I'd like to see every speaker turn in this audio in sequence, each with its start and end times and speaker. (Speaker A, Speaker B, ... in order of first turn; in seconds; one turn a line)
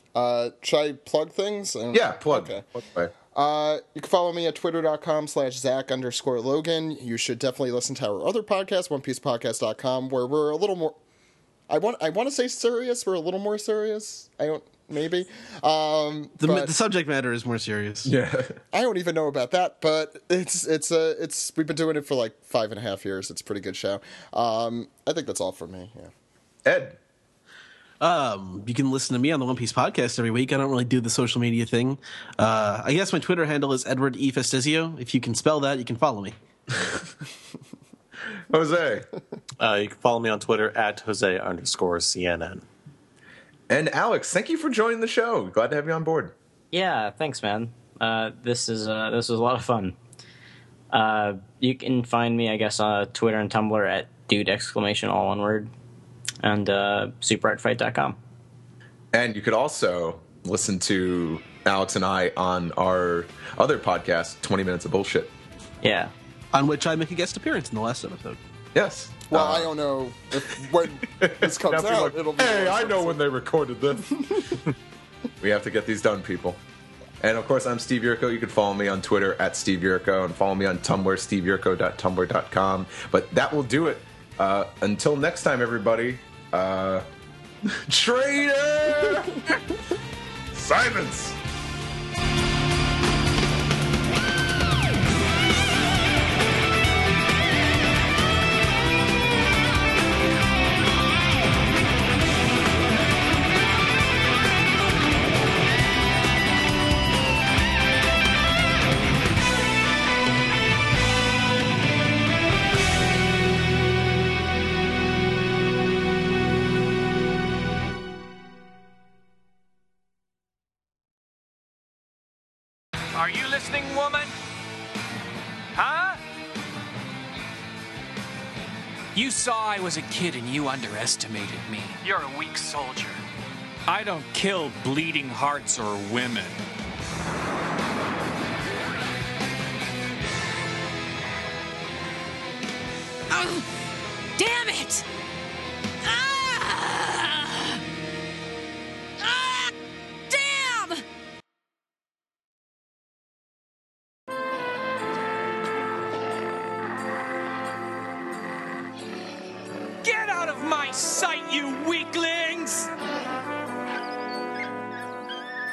Speaker A: 0.1-2.6
Speaker B: 1.9-3.1
Speaker A: 3.3-11.0
Speaker A: 11.7-16.7
Speaker C: 16.4-18.1
Speaker B: 18.1-18.6
Speaker A: 18.7-26.1
Speaker B: 26.6-27.0
Speaker C: 28.0-36.3
Speaker B: 38.5-39.1
Speaker D: 39.6-42.6
Speaker B: 43.7-46.3
Speaker E: 46.7-50.0
Speaker E: 50.9-55.7
Speaker E: 56.4-58.2
Speaker B: 59.1-65.3
Speaker E: 65.8-66.1
Speaker C: 66.5-68.4
Speaker B: 68.7-69.7
Speaker A: 69.3-73.2
Speaker B: 71.2-74.6
Speaker B: 75.4-76.6
Speaker B: 77.2-87.0
Speaker B: 87.7-89.6
Speaker B: 90.5-91.3
Speaker F: 123.1-124.3
Speaker F: 125.8-126.2
Speaker F: 129.1-133.2
Speaker F: 133.9-136.6
Speaker G: 143.3-143.7
Speaker G: 144.4-145.1
Speaker G: 146.0-147.8
Speaker G: 149.2-149.7
Speaker G: 150.3-151.0
Speaker F: 160.0-162.9